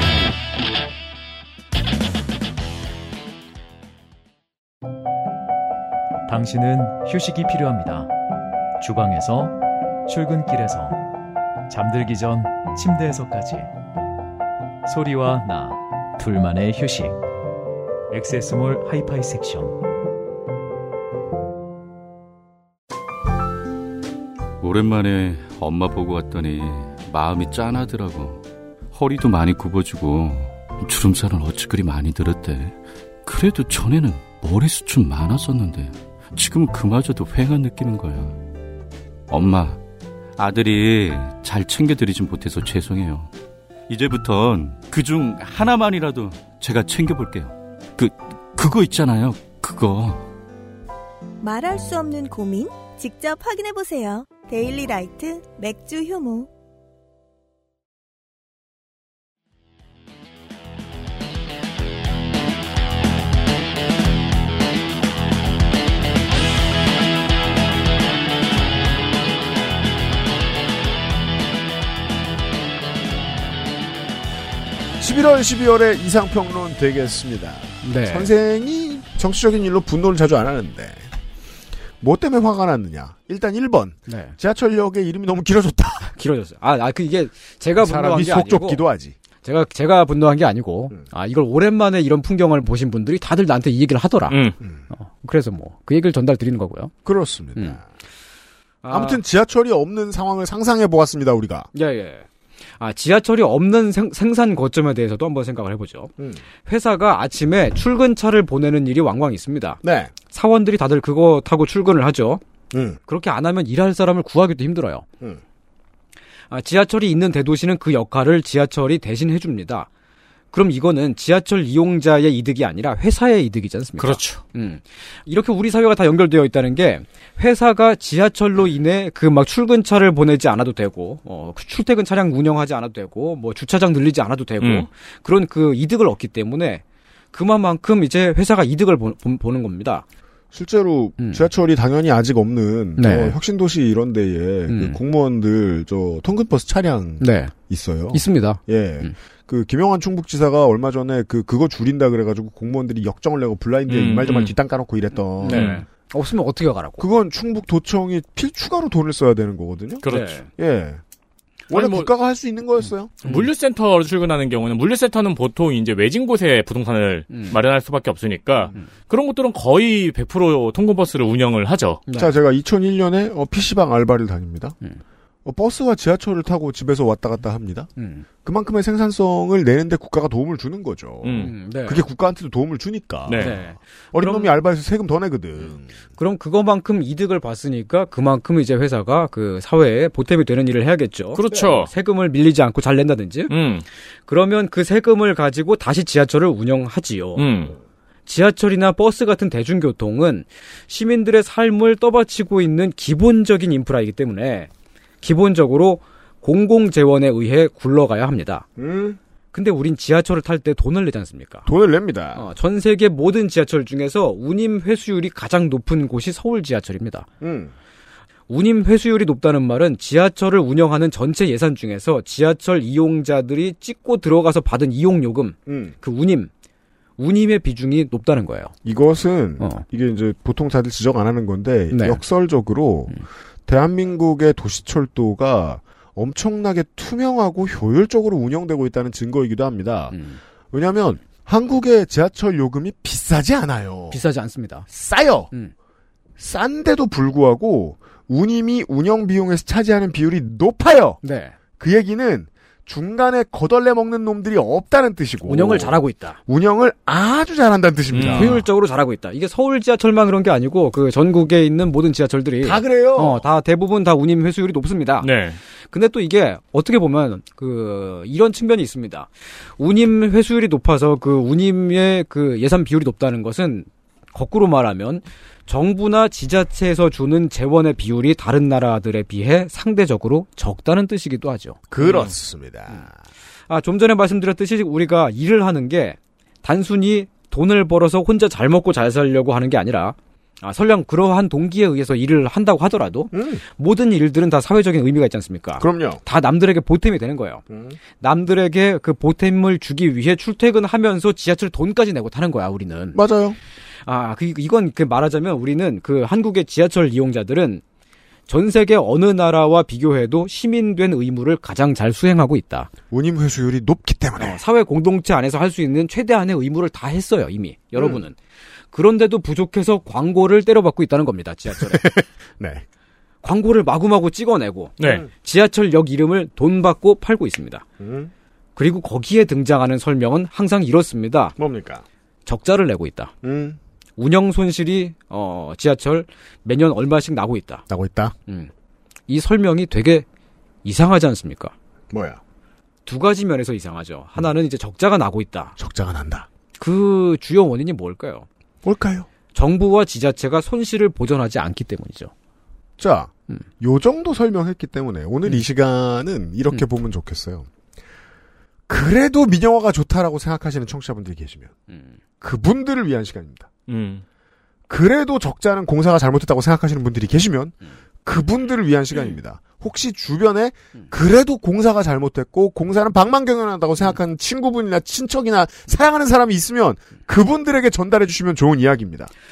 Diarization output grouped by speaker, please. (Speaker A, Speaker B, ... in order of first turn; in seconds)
Speaker A: 6.3-8.1, 8.8-11.0, 11.7-13.7, 14.9-17.2, 18.1-19.8
Speaker B: 24.6-38.4, 39.3-39.8, 40.4-43.3, 43.9-50.3
Speaker C: 51.4-56.5
Speaker D: 75.0-81.1, 82.0-86.1, 87.8-89.2, 97.0-97.8, 98.9-101.7, 106.2-106.4, 109.8-110.1, 112.7-113.0, 140.5-155.8, 157.0-161.0, 161.7-163.2, 172.2-174.8, 175.4-177.9, 178.4-185.9, 191.5-191.8, 208.8-209.2, 211.7-212.4, 217.4-217.7, 225.7-225.9, 228.8-240.2, 240.7-244.2, 244.9-245.5, 246.4-251.2, 251.8-258.6, 262.6-263.4, 281.9-283.1, 293.3-293.6, 295.8-296.2, 297.7-298.0, 303.1-303.6, 313.1-314.6, 318.0-318.2, 321.8-322.8, 328.0-328.3, 331.6-332.0, 333.4-333.8, 337.9-338.4, 342.1-342.4, 345.8-346.5, 348.8-349.3, 353.0-357.7, 358.9-361.7, 362.4-363.7, 364.9-379.3
Speaker E: 77.8-78.3, 84.1-84.4, 86.1-88.9, 89.4-94.4, 95.0-96.9, 97.5-97.8, 98.8-99.2, 101.8-106.1, 106.7-112.4, 113.1-115.1, 116.5-119.9, 120.5-140.1, 141.2-141.5, 143.0-143.4, 144.7-145.0, 147.2-147.5, 148.1-149.1, 155.4-157.1, 160.1-160.5, 167.3-167.6, 172.1-172.3, 178.0-178.3, 181.4-182.0, 183.4-184.6, 186.2-193.5, 194.3-197.5, 198.3-204.7, 205.2-208.7, 209.5-211.7, 212.3-217.3, 218.5-226.5, 227.2-228.7, 231.9-232.2, 240.1-240.4, 244.1-244.9, 251.2-251.6, 255.4-256.4, 258.3-265.3, 265.9-282.3, 283.7-303.2, 304.1-307.8, 308.5-312.9, 314.4-318.4, 318.9-322.1, 323.4-327.9, 328.8-331.6, 332.5-333.3, 334.2-337.8, 339.3-340.2, 340.8-341.7, 343.1-345.8, 346.8-348.5, 349.5-352.3, 361.9-362.2
Speaker F: 94.3-94.6, 124.0-124.4, 134.6-134.9, 153.9-154.5, 155.4-155.8, 160.0-160.4, 161.7-162.1, 163.2-172.0, 181.2-181.5, 183.3-183.6, 191.3-191.9, 193.5-193.8, 197.4-197.8, 258.1-258.6, 265.2-265.6, 325.0-325.2, 363.9-364.2